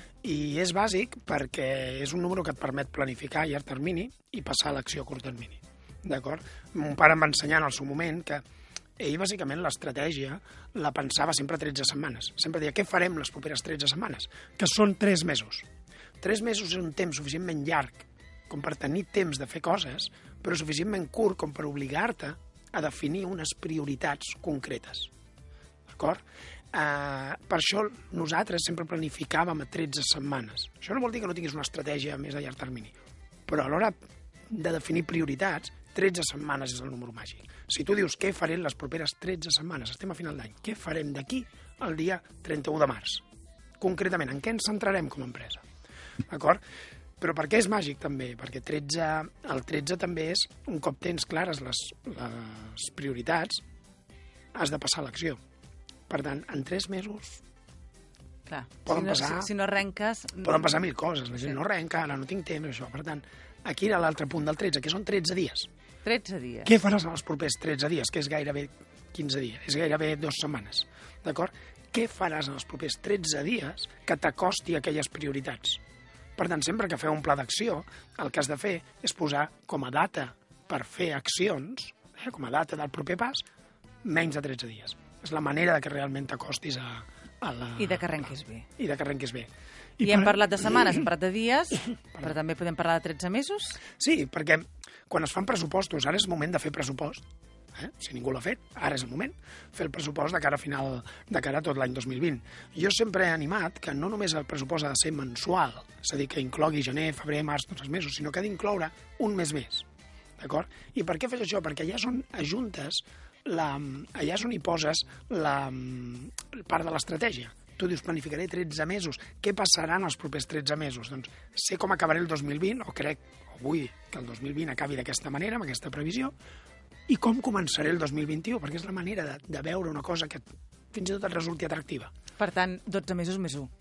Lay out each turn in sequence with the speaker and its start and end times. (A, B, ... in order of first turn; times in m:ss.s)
0:00.2-0:08.4 A
0:09.0-0:15.7 A
0:16.2-0:25.1 A
0:25.9-0:33.0 A
0:33.5-0:34.0 A
0:34.5-0:43.2 A
0:43.8-0:45.6 A
0:46.3-0:46.6 A
0:47.2-0:53.6 A
0:54.5-0:55.4 A
0:56.1-0:57.4 A
0:58.5-1:00.8 B
0:58.9-0:59.5 A
1:00.4-1:05.7 A
1:06.0-1:06.8 B
1:06.6-1:15.8 A
1:16.4-1:23.4 A
1:24.0-1:31.0 A
1:27.8-1:28.7 B
1:30.0-1:33.8 B
1:34.0-1:37.2 A
1:37.8-1:49.9 A
1:50.4-2:06.4 A
2:07.1-2:12.1 A
2:12.4-2:13.7 B